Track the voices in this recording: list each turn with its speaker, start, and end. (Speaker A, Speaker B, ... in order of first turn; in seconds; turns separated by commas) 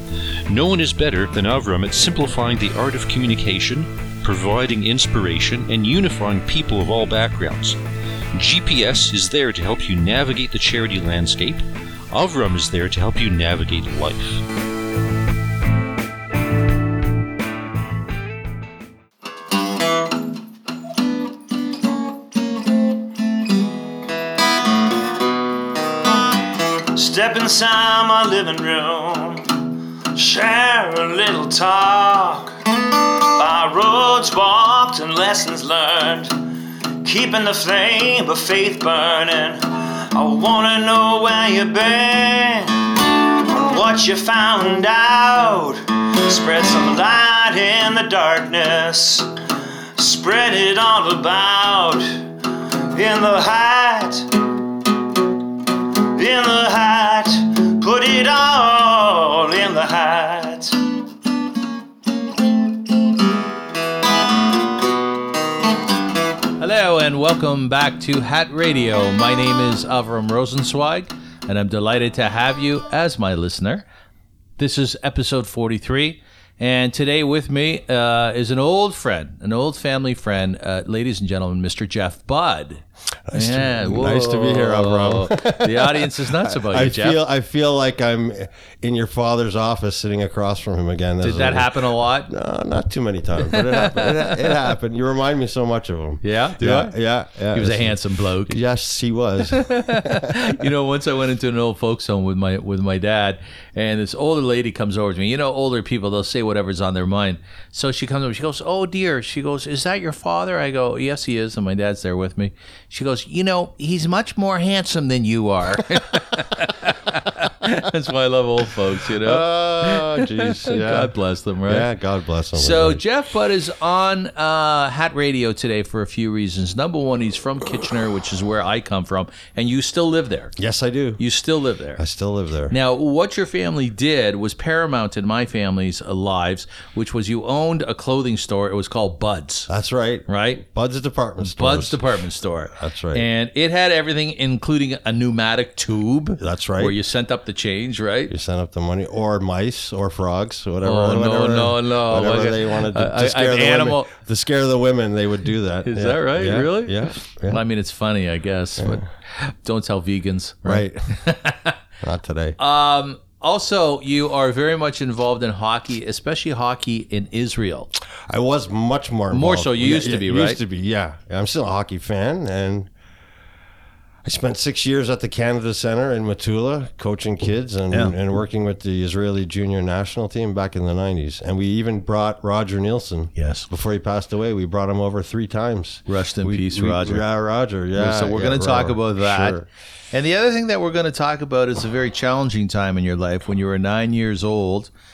Speaker A: 0.5-7.8, Speaker A: 8.3-14.4, Speaker B: 26.9-49.3, Speaker B: 50.0-54.4, Speaker B: 56.0-60.8, Speaker C: 66.6-73.8, Speaker C: 74.6-87.2, Speaker D: 83.3-91.7, Speaker C: 91.2-92.3, Speaker D: 92.3-100.4, Speaker C: 93.5-94.5, Speaker C: 96.2-96.9, Speaker C: 97.5-98.6, Speaker C: 99.5-121.9, Speaker D: 119.2-121.1, Speaker D: 121.6-123.0, Speaker C: 122.5-130.5, Speaker D: 130.6-131.2, Speaker C: 131.2-132.0, Speaker D: 132.0-132.7, Speaker C: 132.7-139.7, Speaker D: 139.7-142.0, Speaker C: 140.3-140.6, Speaker C: 141.4-148.3, Speaker D: 142.7-143.2, Speaker D: 146.4-147.0, Speaker D: 148.3-157.6, Speaker C: 150.8-154.1, Speaker C: 155.8-161.8, Speaker D: 158.8-159.1, Speaker D: 160.6-161.0, Speaker D: 162.0-162.6, Speaker C: 162.6-167.9, Speaker D: 168.3-172.9, Speaker C: 169.3-170.6, Speaker D: 174.2-189.7, Speaker C: 183.3-183.7, Speaker C: 186.1-187.2, Speaker C: 187.9-194.9